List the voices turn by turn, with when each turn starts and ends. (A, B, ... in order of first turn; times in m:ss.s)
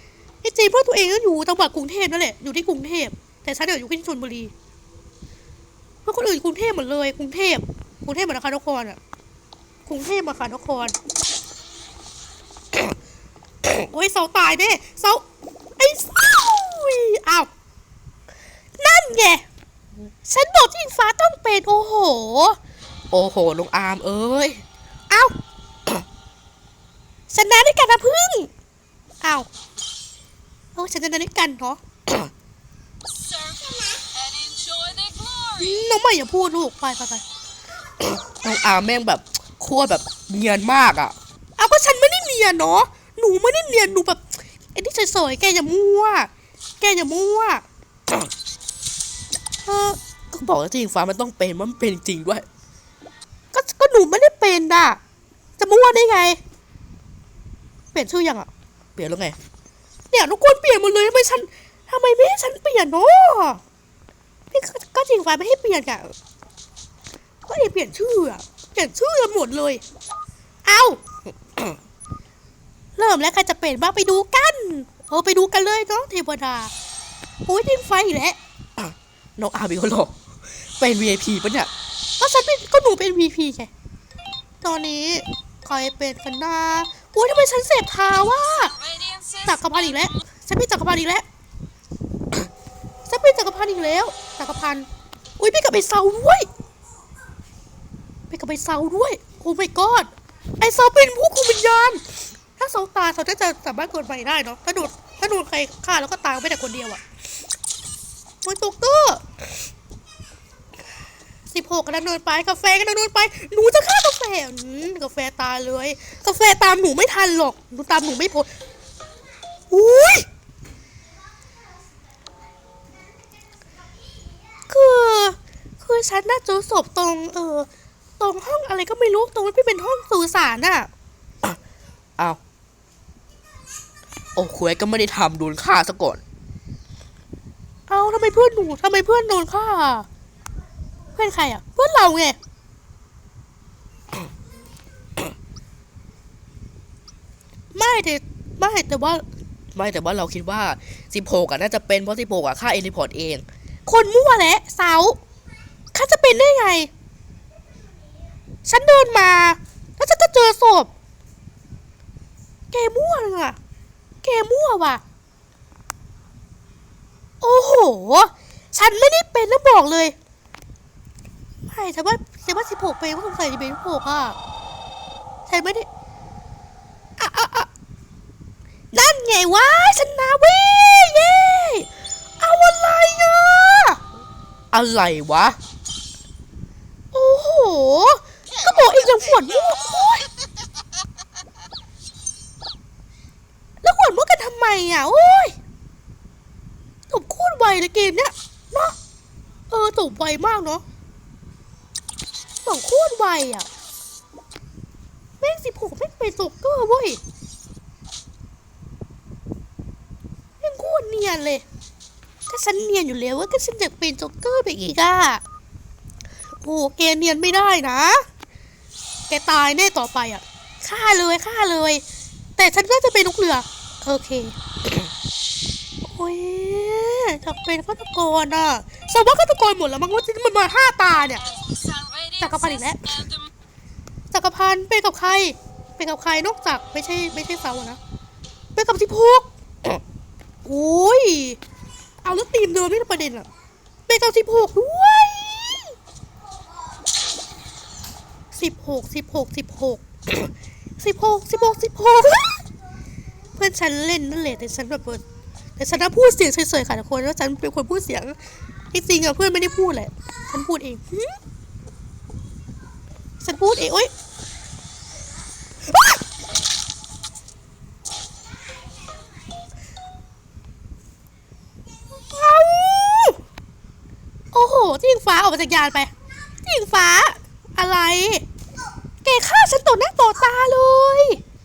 0:00.4-0:04.5 A
0:06.0-0:09.0 A
0:09.9-0:11.0 A
0:13.8-0:15.2 A
0:15.8-0:17.5 A
0:18.8-0:19.4 A
0:20.2-0:22.6 A
0:23.1-0:24.6 B
0:27.3-0:28.5 A
0:29.2-0:29.5 A
0:30.8-0:31.8 A
0:33.0-0:35.9 C
0:35.6-0:37.2 A
0:38.0-0:41.2 B
0:41.6-0:44.2 A
0:44.8-0:47.6 A
0:49.7-0:50.0 A
0:50.3-0:52.5 B
0:53.5-0:55.0 A
0:55.6-0:56.4 A
0:57.9-0:58.5 A
0:59.0-0:59.4 B
1:00.1-1:03.6 A
1:04.5-1:06.1 A
1:07.5-1:09.8 A
1:10.6-1:11.0 A
1:13.0-1:16.7 A
1:17.5-1:18.4 A
1:18.8-1:20.1 B
1:20.8-1:21.7 B
1:22.2-1:23.7 A
1:24.6-1:28.8 A
1:28.5-1:30.2 C
1:29.4-1:31.2 A
1:33.1-1:34.9 A
1:35.4-1:36.5 A
1:38.3-1:40.1 A
1:40.6-1:42.0 A
1:42.6-1:47.0 A
1:48.4-1:49.2 A
1:51.5-1:58.5 A
1:59.7-2:00.3 A
2:04.7-2:07.7 A
2:08.2-2:10.9 A
2:14.4-2:16.2 B
2:17.9-2:20.1 A
2:21.2-2:22.4 A
2:27.8-2:29.2 A
2:29.8-2:33.4 B
2:33.9-2:35.2 A
2:35.9-2:36.9 A
2:38.7-2:40.9 A
2:42.7-2:43.6 A
2:44.2-2:45.0 A
2:47.4-2:50.2 A
2:51.7-2:54.4 A
2:55.5-2:55.9 A
2:57.2-2:57.7 A
2:58.9-3:01.9 A
3:02.4-3:04.0 A
3:04.7-3:05.6 B
3:07.1-3:10.3 A
3:13.8-3:15.6 A
3:17.1-3:19.0 A
3:19.7-3:20.8 A
3:22.6-3:23.7 A
3:25.4-3:27.2 A
3:30.6-3:31.6 A
3:32.5-3:35.4 A
3:36.6-3:38.2 A
3:39.3-3:42.0 A
3:42.6-3:44.6 A
3:46.0-3:51.4 A
3:51.4-3:53.5 C
3:52.4-3:53.0 A
3:54.3-3:58.0 A
3:58.8-3:59.5 A
4:00.6-4:01.6 A
4:02.2-4:03.5 A
4:04.1-4:05.9 A
4:08.5-4:12.6 A
4:13.6-4:15.2 A
4:15.8-4:18.4 A
4:18.9-4:21.4 A
4:23.4-4:24.1 A
4:32.2-4:33.4 A
4:34.5-4:36.1 A
4:36.6-4:38.4 A
4:39.2-4:41.4 A